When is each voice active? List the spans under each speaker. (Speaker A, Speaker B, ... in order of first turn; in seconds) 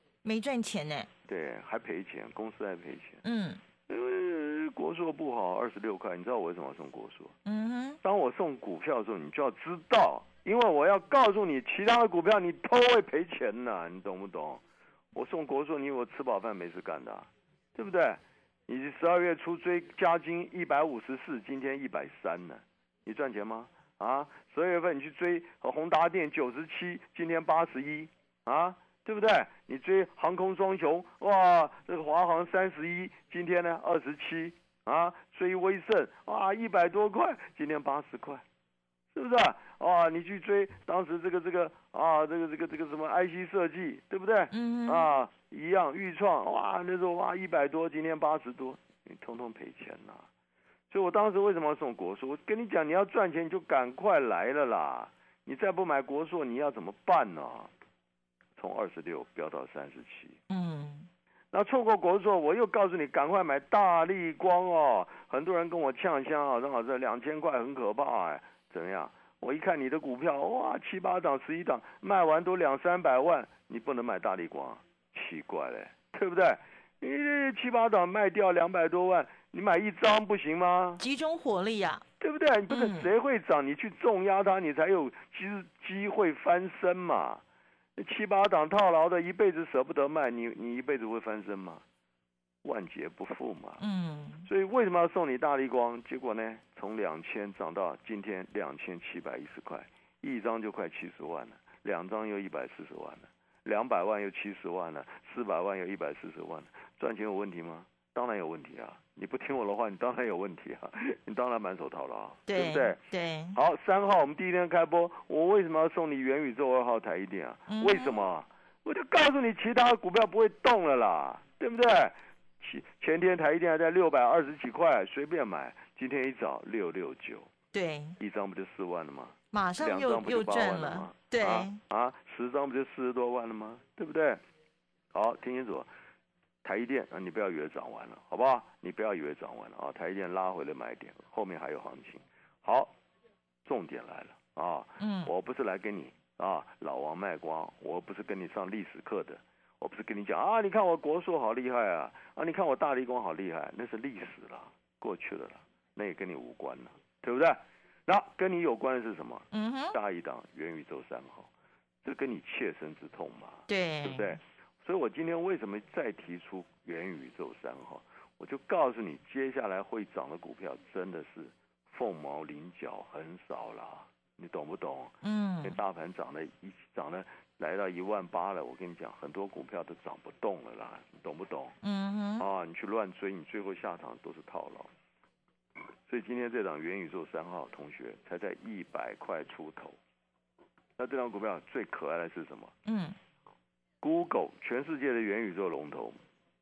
Speaker A: 0.2-1.1, 3.2-3.6, 7.4-8.0, 44.5-45.1, 60.5-61.1, 81.0-82.0, 82.7-83.1, 93.8-94.5, 112.5-113.5, 117.7-118.2, 127.7-128.1, 129.5-131.8, 145.0-145.3, 159.5-159.9, 163.7-164.4, 175.2-175.8, 181.8-182.4, 192.8-193.2
Speaker B: 1.2-3.2, 3.9-7.3, 8.0-14.6, 15.1-38.4, 39.1-50.2, 50.9-57.7, 58.6-60.4, 61.5-81.0, 82.2-87.4, 88.0-91.8, 92.6-93.8, 94.5-113.0, 113.5-127.5, 128.2-134.4, 135.1-135.9, 136.6-142.9, 143.6-161.5, 162.0-181.7, 182.4-184.9, 186.1-189.9, 191.0-192.7, 194.0-196.2